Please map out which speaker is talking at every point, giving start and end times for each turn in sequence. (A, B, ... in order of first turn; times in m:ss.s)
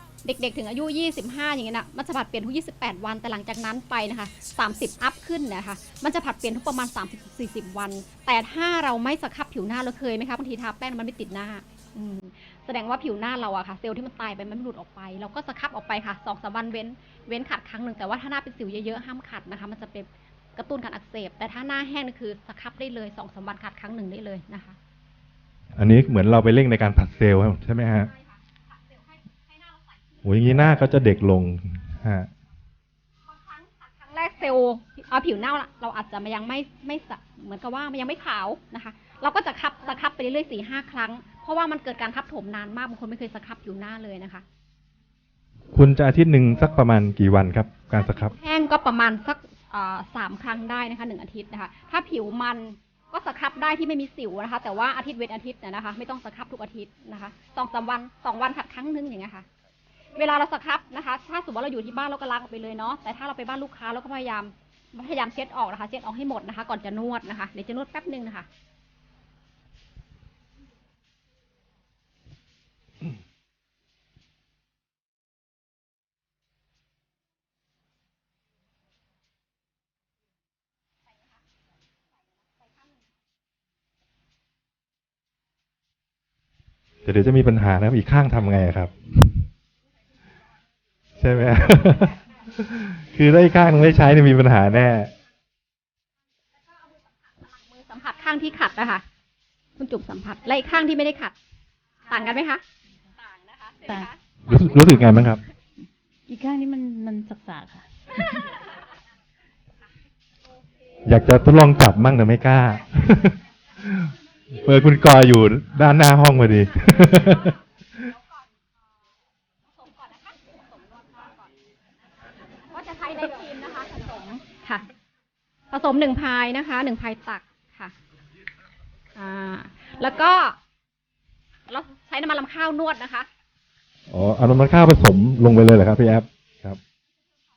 0:00.2-0:24.8 A
0:25.8-0:28.1 B
0:27.9-0:30.2 A
0:30.2-0:32.3 B
0:33.2-0:44.4 A
0:45.7-0:48.3 B
0:47.9-0:59.4 A
1:00.1-1:08.5 A
1:21.1-1:21.4 A
1:22.4-1:23.0 A
1:27.0-1:29.4 B
1:31.2-1:35.1 B
1:36.7-1:39.0 A
1:39.8-1:41.3 A
1:42.1-1:42.6 A
1:43.2-1:44.2 A
1:44.4-1:45.4 B
1:46.3-1:48.4 C
1:51.0-1:57.5 B
1:56.8-1:58.7 A
1:59.6-2:01.5 A
2:02.6-2:04.9 A
2:05.7-2:07.9 A
2:09.2-2:10.6 A
2:11.7-2:13.3 A
2:14.1-2:16.8 B